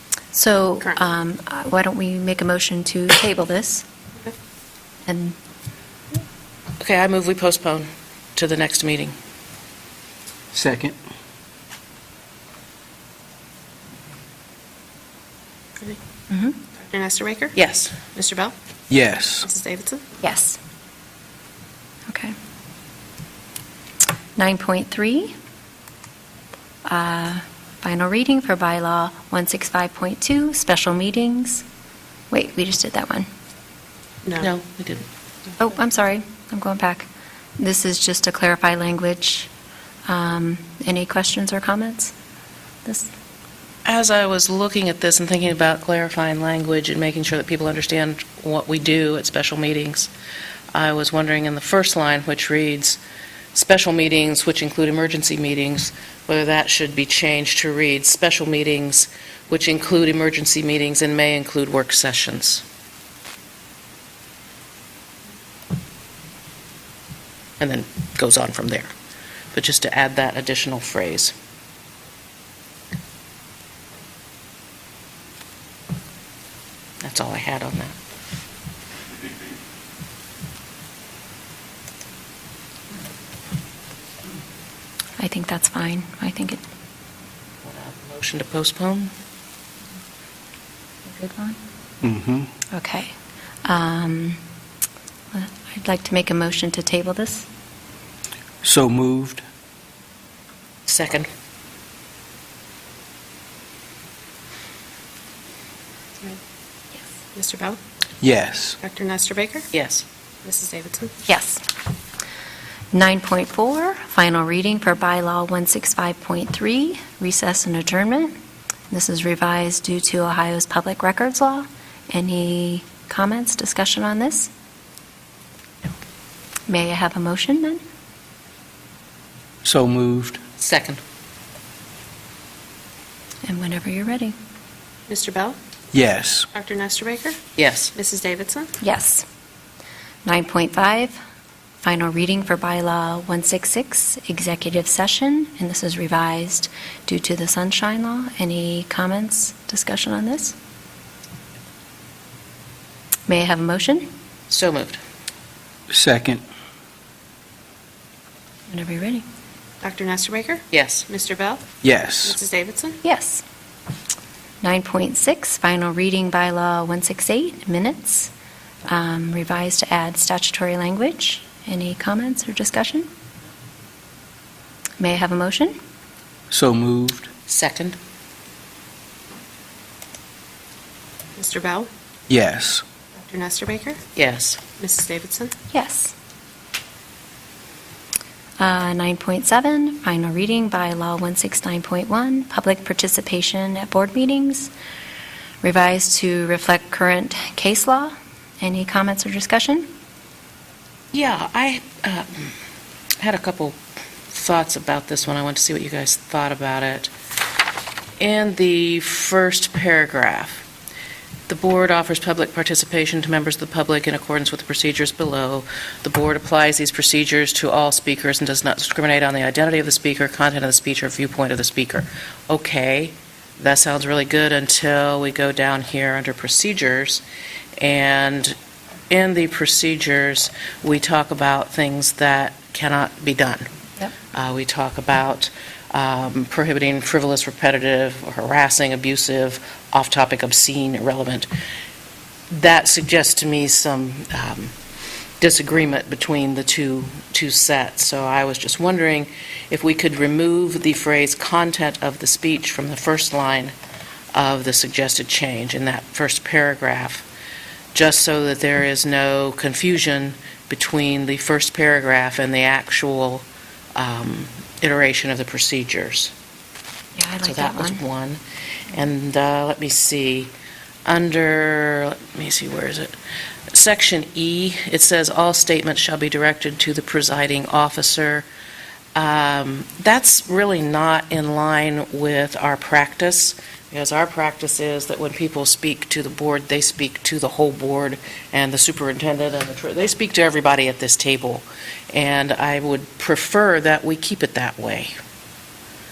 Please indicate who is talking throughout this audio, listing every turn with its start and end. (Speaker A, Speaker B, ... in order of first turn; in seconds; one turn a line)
Speaker A: 0.3-3.9
Speaker A: 5.0-5.3
Speaker B: 6.8-9.1
Speaker C: 10.5-11.0
Speaker A: 16.3-16.6
Speaker D: 16.7-17.6
Speaker B: 17.5-18.0
Speaker D: 18.1-18.5
Speaker C: 18.9-19.4
Speaker D: 19.4-20.1
Speaker A: 20.2-20.6
Speaker A: 22.1-22.3
Speaker A: 24.4-25.3
Speaker A: 26.8-31.6
Speaker A: 32.3-33.3
Speaker B: 34.4-35.0
Speaker A: 35.6-39.5
Speaker A: 40.1-42.1
Speaker A: 42.8-43.1
Speaker B: 43.8-50.1
Speaker B: 50.7-53.0
Speaker B: 53.5-62.6
Speaker B: 67.6-68.9
Speaker B: 69.5-71.3
Speaker B: 77.0-77.9
Speaker A: 85.2-86.6
Speaker B: 87.6-89.1
Speaker A: 91.0-91.6
Speaker C: 92.0-92.5
Speaker A: 92.7-94.4
Speaker A: 95.3-97.5
Speaker C: 98.6-99.4
Speaker B: 100.9-101.3
Speaker D: 107.3-107.8
Speaker C: 108.2-108.8
Speaker D: 108.8-109.7
Speaker B: 109.7-110.0
Speaker D: 110.4-111.2
Speaker A: 111.2-111.6
Speaker A: 112.9-118.3
Speaker A: 118.9-124.5
Speaker A: 126.7-127.8
Speaker C: 129.6-130.4
Speaker B: 130.6-131.0
Speaker A: 133.4-134.3
Speaker D: 135.1-135.6
Speaker C: 135.9-136.5
Speaker D: 136.5-137.4
Speaker B: 137.6-137.9
Speaker D: 137.9-138.7
Speaker A: 138.8-139.2
Speaker A: 140.2-141.2
Speaker A: 141.8-150.6
Speaker A: 153.3-154.1
Speaker B: 154.5-155.0
Speaker C: 155.9-156.4
Speaker A: 158.7-159.2
Speaker D: 159.8-161.6
Speaker B: 160.7-161.1
Speaker C: 161.8-162.4
Speaker D: 162.2-163.0
Speaker A: 163.0-163.4
Speaker A: 164.6-168.3
Speaker A: 168.9-173.1
Speaker A: 175.0-175.8
Speaker C: 176.5-177.3
Speaker B: 177.5-178.0
Speaker D: 181.3-181.9
Speaker C: 182.3-182.8
Speaker D: 183.2-184.0
Speaker B: 184.2-184.6
Speaker D: 184.8-185.5
Speaker A: 185.7-186.1
Speaker A: 188.6-194.7
Speaker A: 195.6-199.9
Speaker B: 201.1-202.5
Speaker B: 203.2-207.1
Speaker B: 208.2-210.6
Speaker B: 211.5-227.2
Speaker B: 227.8-228.6
Speaker B: 229.1-233.7
Speaker B: 234.3-241.5
Speaker B: 242.5-244.7
Speaker B: 245.4-253.7
Speaker B: 254.3-257.2
Speaker B: 257.9-266.3
Speaker A: 267.1-268.0
Speaker B: 267.4-270.5
Speaker B: 271.1-273.1
Speaker B: 273.7-278.4
Speaker B: 279.1-295.1